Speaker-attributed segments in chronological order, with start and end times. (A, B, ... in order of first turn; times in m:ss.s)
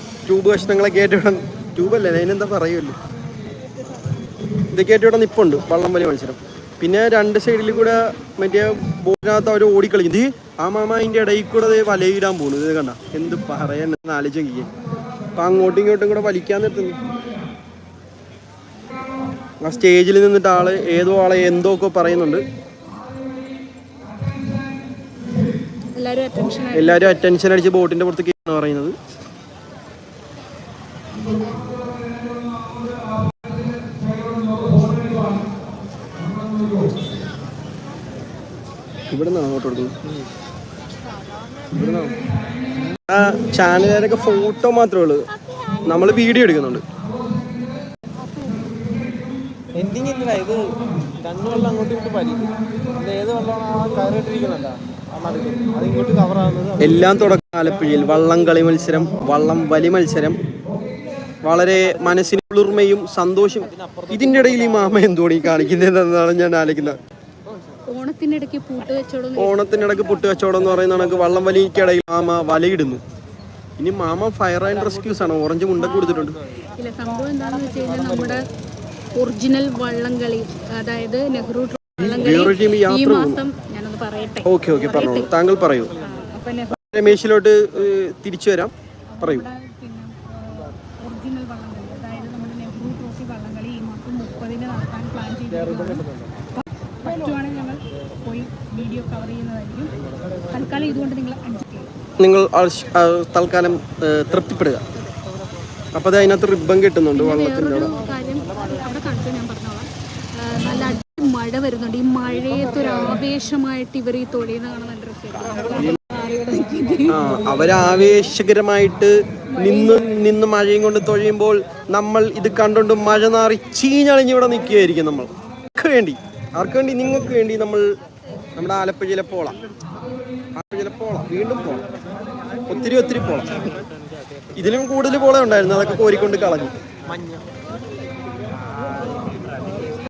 0:00.3-0:03.0 A
0:04.7-0:14.7 A
0:15.4-0:17.0 A
0:19.6-0:22.4 A
0:25.9-0:27.2 B
0:26.7-0:29.0 A
0:39.1-0:40.0 A
0:41.7-0:42.2 A
0:43.1-0:45.3 A
0:45.5-0:45.8 B
0:45.8-0:46.8 A
0:49.7-0:57.1 C
0:56.8-1:00.4 A
1:01.4-1:07.0 A
1:03.8-1:04.6 C
1:07.9-1:10.4 B
1:09.4-1:13.0 A
1:13.8-1:16.4 A
1:16.8-1:18.4 B
1:19.2-1:25.3 B
1:22.0-1:23.4 A
1:24.4-1:26.0 A
1:26.0-1:27.1 B
1:26.8-1:29.5 A
1:29.1-1:39.9 B
1:35.7-1:36.3 C
1:40.5-1:41.9 B
1:42.2-1:44.8 A
1:46.0-1:48.0 A
1:47.1-1:57.2 B
1:55.7-1:56.0 A
1:57.1-2:07.9 A
1:59.5-2:00.1 B
2:08.6-2:09.6 A
2:10.6-2:11.8 A
2:12.7-2:13.8 A
2:14.6-2:16.8 A
2:17.1-2:17.4 C